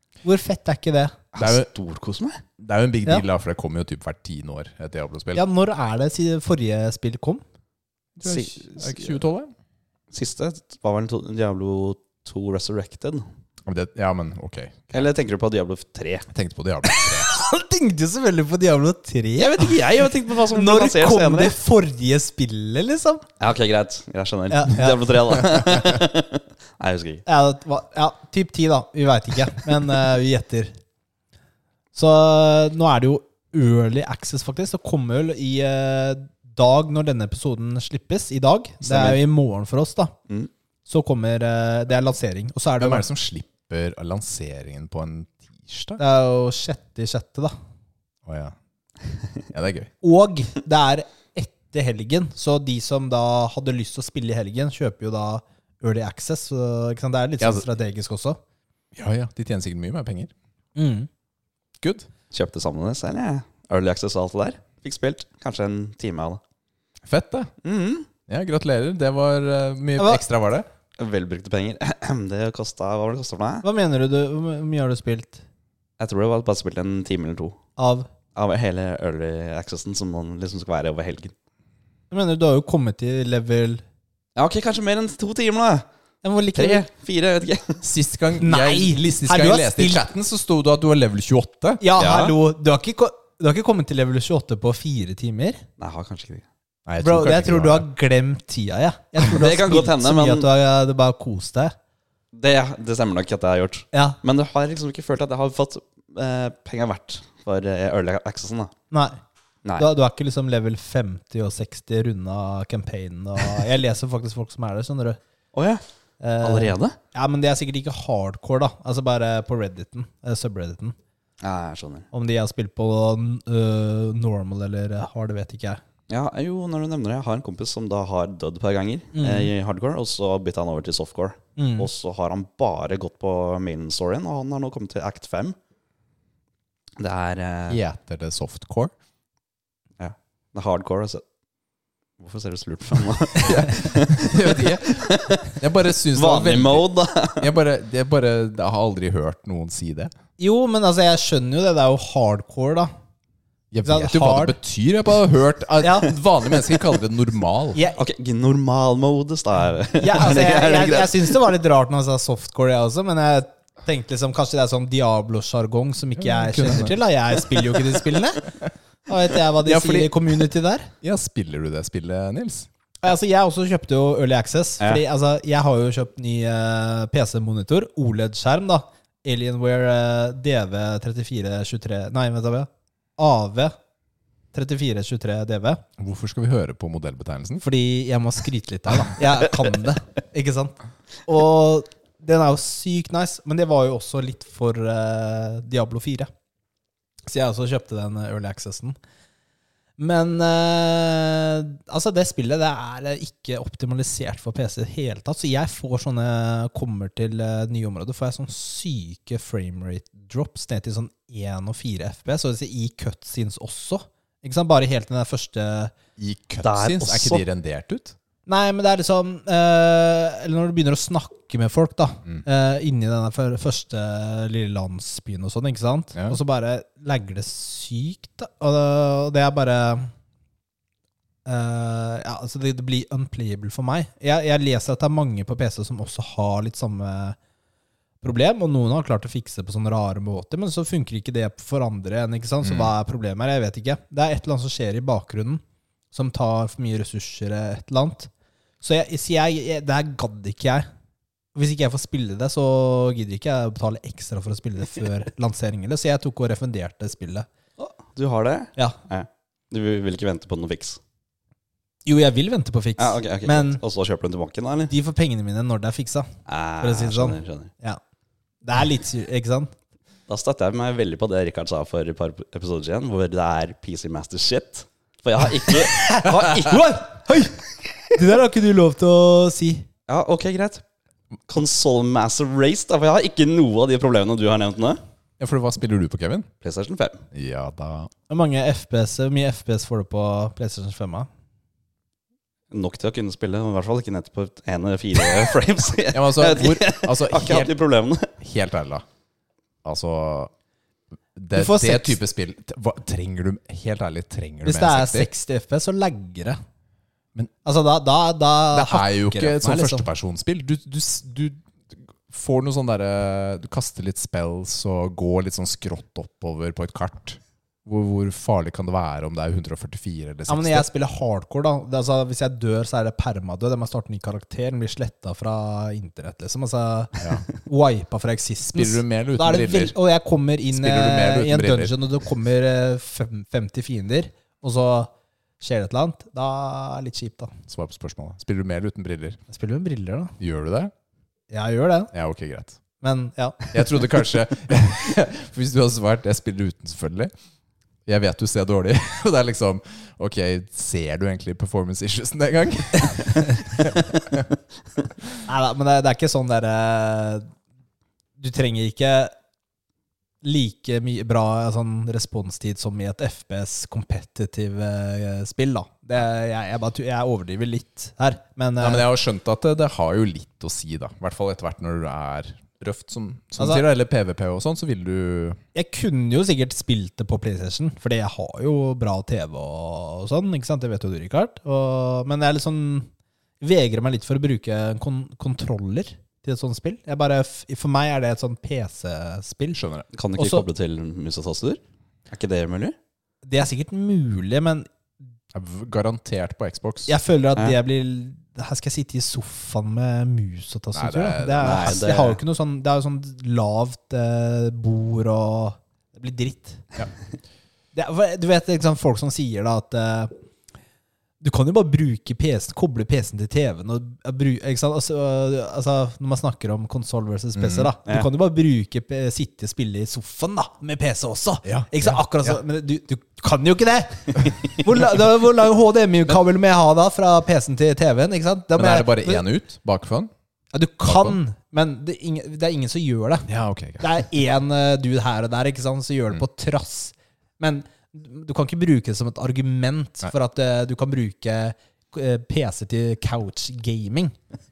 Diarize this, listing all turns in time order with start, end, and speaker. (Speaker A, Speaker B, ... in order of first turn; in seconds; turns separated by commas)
Speaker A: 0.2-1.1, Speaker B: 1.3-2.4, Speaker C: 1.4-1.7, Speaker C: 2.6-5.4, Speaker A: 5.3-7.4, Speaker C: 8.2-9.5, Speaker B: 8.2-9.2, Speaker B: 10.1-13.2, Speaker C: 13.7-15.0, Speaker B: 14.9-16.3, Speaker C: 16.3-17.3, Speaker A: 17.2-19.8, Speaker B: 19.4-21.5, Speaker A: 20.3-23.2, Speaker B: 23.4-27.2, Speaker A: 24.5-25.1, Speaker A: 27.2-30.7, Speaker A: 31.9-40.1, Speaker C: 38.9-39.2, Speaker A: 40.9-43.1, Speaker C: 42.8-46.0, Speaker A: 46.0-47.5, Speaker C: 48.2-48.5, Speaker C: 49.5-49.9, Speaker A: 50.0-58.4, Speaker C: 57.4-57.6, Speaker C: 58.9-60.3, Speaker A: 60.8-61.1, Speaker C: 61.8-62.1, Speaker B: 62.3-66.4, Speaker C: 67.0-67.5, Speaker B: 67.6-68.1, Speaker C: 68.3-70.7, Speaker A: 70.0-70.2, Speaker B: 71.0-73.6, Speaker A: 73.6-75.4, Speaker B: 76.0-77.6, Speaker A: 77.8-78.1, Speaker B: 78.3-81.3, Speaker A: 82.1-83.8, Speaker B: 84.3-85.8, Speaker A: 86.2-86.8, Speaker B: 86.5-87.8, Speaker C: 87.8-91.8, Speaker A: 88.4-90.0, Speaker A: 91.8-95.6, Speaker B: 92.0-92.3, Speaker B: 95.8-96.4, Speaker C: 96.8-97.8, Speaker A: 97.0-101.7, Speaker B: 99.2-100.5, Speaker B: 102.3-108.7, Speaker A: 108.9-109.2, Speaker A: 109.8-115.2, Speaker B: 115.5-115.8, Speaker A: 116.2-121.0, Speaker B: 116.4-117.0, Speaker B: 121.4-122.1, Speaker A: 122.1-125.8, Speaker B: 126.1-135.6, Speaker A: 129.1-129.5, Speaker A: 131.6-131.9, Speaker B: 137.0-137.8, Speaker C: 137.7-138.9, Speaker B: 140.0-141.2, Speaker B: 142.2-145.6, Speaker C: 143.4-150.1, Speaker B: 146.1-147.5, Speaker A: 150.4-152.9, Speaker C: 153.7-157.8, Speaker A: 153.8-154.6, Speaker A: 155.8-156.1, Speaker A: 157.7-158.0, Speaker B: 157.9-161.4, Speaker A: 160.0-168.5, Speaker C: 166.2-167.0, Speaker A: 169.1-170.9, Speaker C: 169.6-170.2, Speaker C: 171.0-172.7, Speaker A: 173.0-183.8, Speaker A: 184.5-185.8, Speaker C: 186.0-187.7, Speaker A: 187.6-196.3, Speaker A: 197.2-198.9, Speaker A: 200.0-215.9, Speaker C: 216.2-218.2, Speaker B: 216.6-217.4, Speaker A: 218.5-230.1, Speaker A: 231.4-237.4, Speaker A: 238.2-248.3, Speaker C: 242.6-242.9, Speaker A: 248.8-250.9, Speaker A: 251.5-257.5, Speaker B: 257.8-261.0, Speaker A: 262.1-263.8, Speaker B: 263.0-264.9, Speaker A: 264.9-268.0, Speaker B: 266.5-267.7, Speaker A: 268.6-269.7, Speaker B: 270.3-277.4, Speaker A: 275.9-277.6, Speaker A: 278.1-279.9, Speaker B: 280.1-280.8, Speaker B: 281.5-285.0, Speaker C: 285.4-286.5, Speaker B: 286.6-287.2, Speaker C: 287.3-288.1, Speaker A: 288.3-291.3, Speaker B: 292.7-298.3, Speaker C: 296.1-297.7, Speaker C: 298.4-299.0, Speaker C: 299.8-300.5, Speaker C: 301.4-305.3, Speaker A: 301.5-302.2, Speaker A: 304.6-306.6, Speaker A: 307.6-310.1, Speaker C: 308.7-320.9, Speaker A: 320.5-337.5, Speaker C: 327.2-327.4, Speaker C: 328.7-329.9, Speaker C: 330.7-331.9, Speaker C: 337.7-339.4, Speaker A: 339.5-340.3, Speaker C: 340.4-340.9, Speaker A: 341.5-342.1, Speaker C: 342.1-342.8, Speaker A: 343.0-343.7, Speaker C: 343.7-347.3, Speaker C: 348.1-354.5, Speaker A: 355.4-357.5, Speaker A: 358.4-359.3, Speaker A: 360.4-369.1, Speaker C: 368.8-375.6, Speaker A: 373.6-373.8, Speaker A: 375.7-383.1, Speaker A: 383.6-389.8, Speaker C: 389.7-390.1, Speaker B: 390.1-392.9, Speaker A: 390.4-390.6, Speaker A: 393.4-394.9, Speaker C: 395.5-397.1, Speaker A: 397.1-406.9, Speaker C: 400.9-402.0, Speaker B: 401.6-402.4, Speaker A: 407.9-410.3, Speaker A: 411.4-429.4, Speaker C: 417.6-417.9, Speaker C: 421.6-422.6, Speaker C: 428.8-430.3, Speaker A: 430.7-444.3, Speaker C: 431.0-431.4, Speaker C: 433.5-434.2